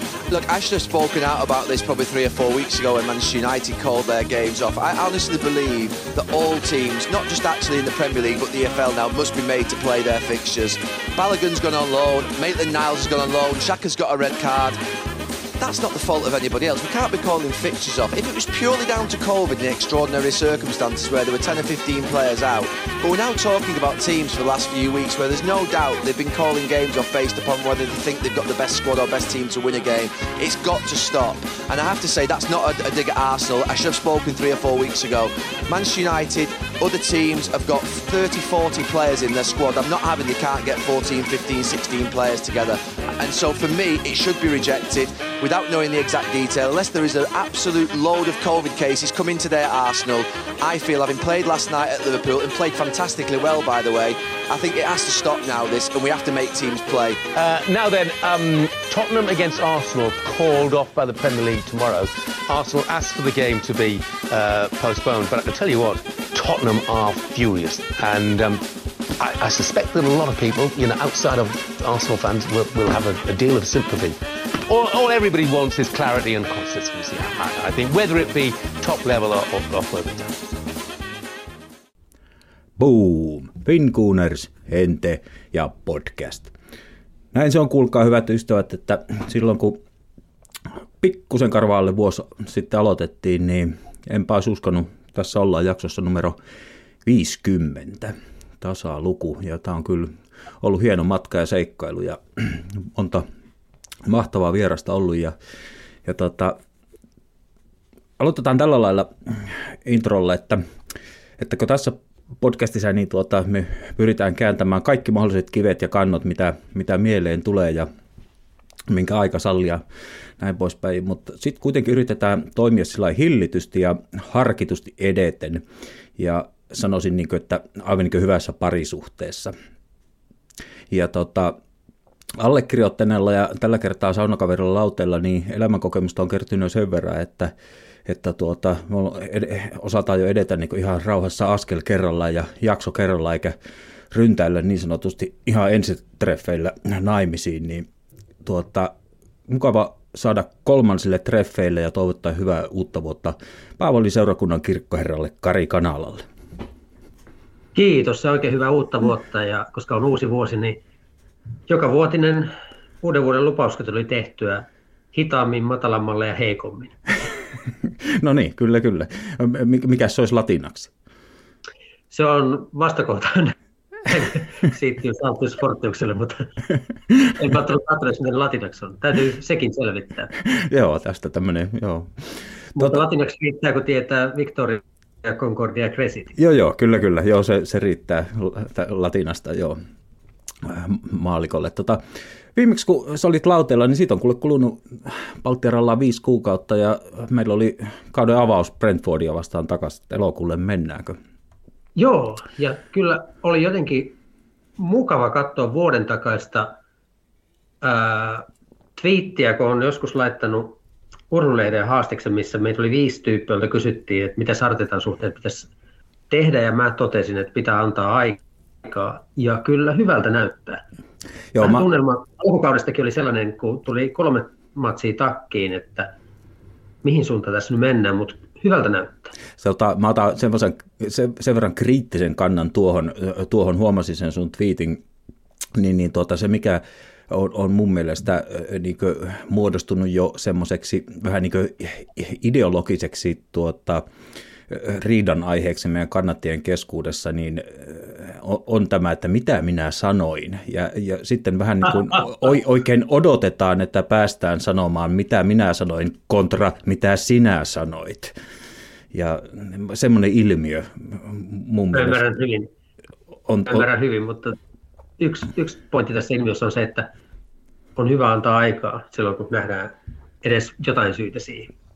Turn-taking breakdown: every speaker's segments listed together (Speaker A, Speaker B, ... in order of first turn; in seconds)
Speaker A: 0.3-14.8, 15.6-57.2
Speaker B: 57.3-68.7, 69.2-80.6
Speaker C: 82.8-86.5, 87.3-89.8, 91.0-96.4, 97.0-103.2, 104.1-105.3, 106.0-106.6, 108.2-110.6, 111.4-117.9, 118.9-119.8, 120.4-125.6, 126.2-129.5, 130.9-131.6, 132.4-137.5, 138.1-143.6, 144.1-147.9, 148.4-148.9, 149.5-156.2, 168.1-170.9, 180.4-183.0, 186.4-189.8, 190.6-192.0, 192.6-201.2, 221.5-221.9, 229.6-235.0, 235.8-244.0, 244.7-258.3, 259.1-262.2, 263.5-263.9
Speaker D: 157.8-160.8, 161.7-162.5, 163.0-167.0, 172.1-173.6, 174.1-176.5, 177.3-180.3, 182.8-186.3, 202.0-204.2, 204.8-206.7, 207.8-210.8, 211.3-215.7, 216.3-220.8, 221.6-226.1, 227.0-229.3, 261.9-262.7, 263.7-264.6, 265.2-267.1, 268.0-271.7